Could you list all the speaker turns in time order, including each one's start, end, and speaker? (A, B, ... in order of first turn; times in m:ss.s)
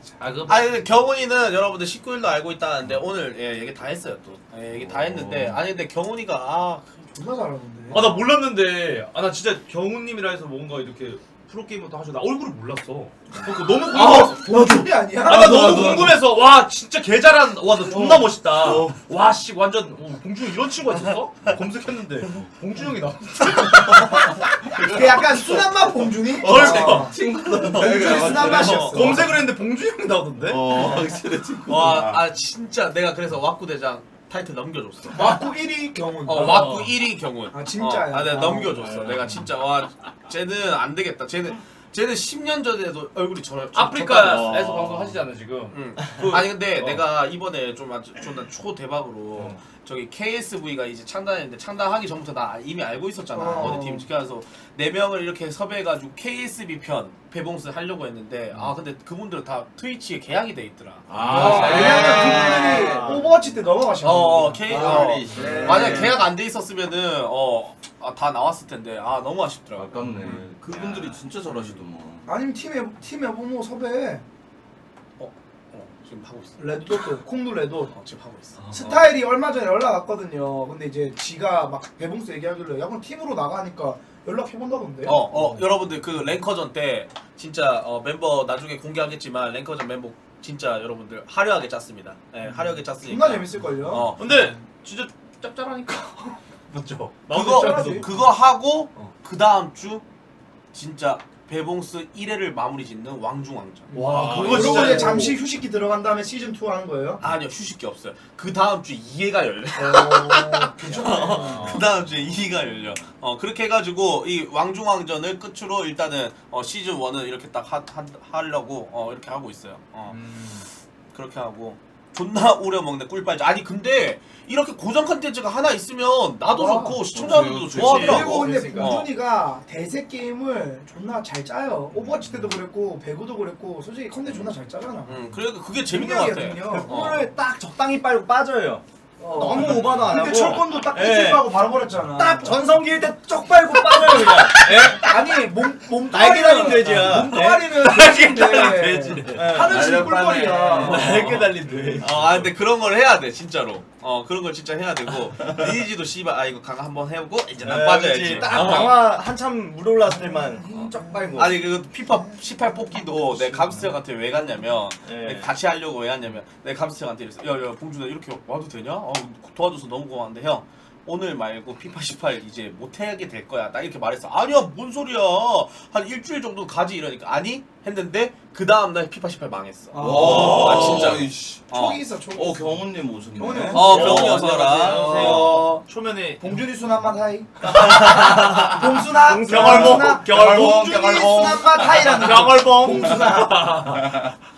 0:00.2-0:00.8 A
0:00.5-0:07.0 B
0:04.8-0:05.6 C
0:07.1-0:08.2 D
0:07.9-0:25.4 A
0:13.8-0:16.2 D
0:14.0-0:14.3 B
0:17.9-0:18.4 D
0:24.8-0:29.4 D
0:26.4-0:29.1 C
0:26.4-0:27.1 A
0:27.6-0:29.2 B
0:28.7-0:30.7 A
0:30.4-0:32.3 C
0:31.6-0:35.4 B
0:35.1-0:36.8 D
0:36.3-0:36.9 A
0:36.3-0:44.6 B
0:37.5-0:38.9 D
0:38.8-0:39.5 C
0:43.7-0:47.0 A
0:44.3-0:45.1 C
0:45.7-1:02.7 B
0:49.4-0:49.6 A
0:53.4-0:54.1 D
1:01.1-1:03.2 C
1:01.2-1:02.1 A
1:01.3-1:06.2 D
1:01.6-1:03.3 E
1:04.0-1:11.8 B
1:04.6-1:06.2 C
1:04.7-1:06.2 E
1:09.8-1:12.3 C
1:10.0-1:10.4 A
1:12.3-1:14.2 D
1:15.2-1:17.1 B
1:16.6-1:17.9 D
1:17.9-1:19.1 B
1:18.6-1:18.9 A
1:18.7-1:25.2 D
1:25.0-1:34.3 B
1:25.1-1:25.8 A
1:32.5-1:32.7 A
1:33.0-1:34.5 D
1:34.1-1:38.3 A
1:37.3-1:40.0 B
1:37.3-1:38.1 D
1:40.7-1:45.2 B
1:43.9-1:47.2 D
1:43.9-1:45.4 A
1:47.2-2:00.2 B
1:49.8-1:51.8 D
1:51.3-1:51.8 A
2:00.1-2:00.7 A
2:01.1-2:09.1 B
2:06.5-2:15.2 D
2:07.1-2:09.0 C
2:11.9-2:12.3 C
2:14.3-2:14.5 C
2:15.1-2:17.3 B
2:15.8-2:17.0 D
2:16.6-2:21.6 E
2:19.2-2:22.6 D
2:19.6-2:20.2 A
2:22.1-2:25.2 E
2:24.0-2:31.9 D
2:26.1-2:27.7 E
2:26.8-2:29.6 A
2:29.3-2:30.0 E
2:29.6-2:32.5 C
2:30.5-2:32.1 E
2:30.8-2:32.0 A
2:30.9-2:31.5 B
2:32.0-2:39.1 B
2:37.6-2:41.6 E
2:38.3-2:38.6 A
2:40.1-2:43.8 D
2:41.4-3:02.0 B
2:45.0-2:45.5 E
2:59.9-3:01.0 D
3:00.0-3:01.7 C
3:00.3-3:01.1 A
3:01.7-3:05.8 D
3:02.3-3:04.5 C
3:03.7-3:05.8 B
3:03.8-3:06.7 A
3:06.4-3:13.8 D
3:07.6-3:14.2 A
3:09.6-3:12.1 C
3:14.0-3:14.3 C